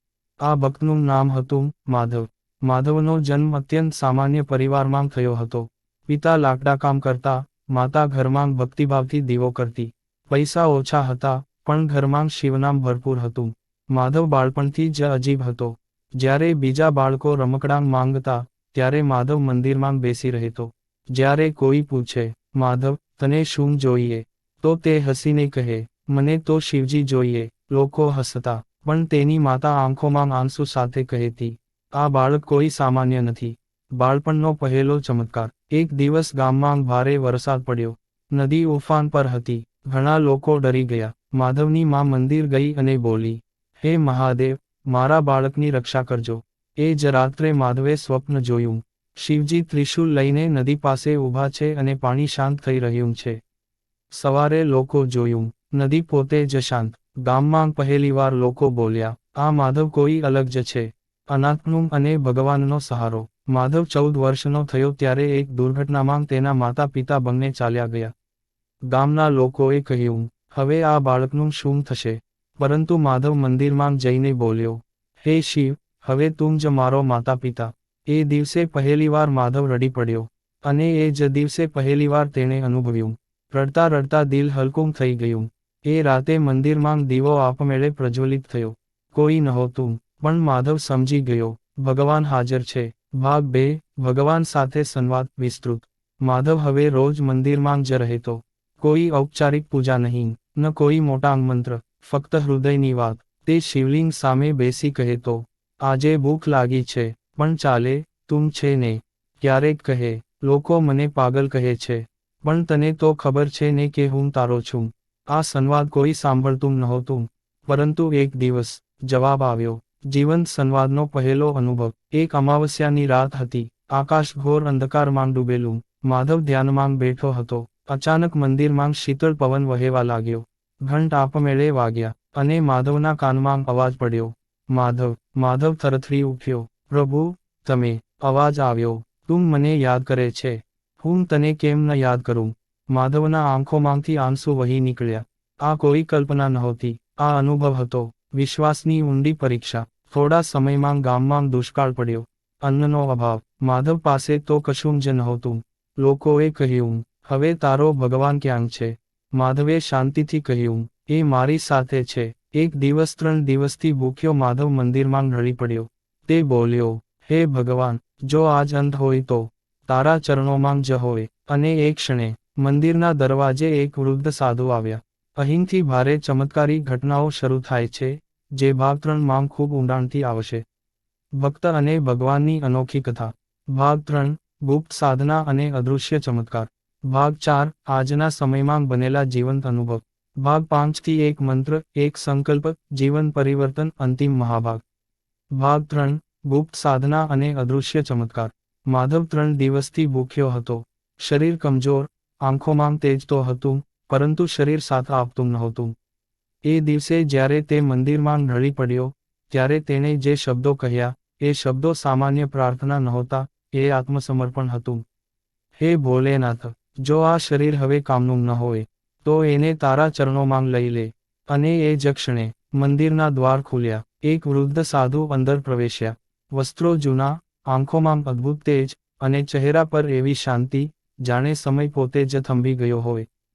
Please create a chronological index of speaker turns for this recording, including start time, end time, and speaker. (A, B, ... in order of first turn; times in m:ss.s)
0:00.4-0:53.4 A
0:54.1-1:08.1 A
1:08.9-3:00.6 A
3:01.4-3:14.8 A
3:15.5-3:26.0 A
3:26.7-3:35.0 A
3:35.8-3:53.3 A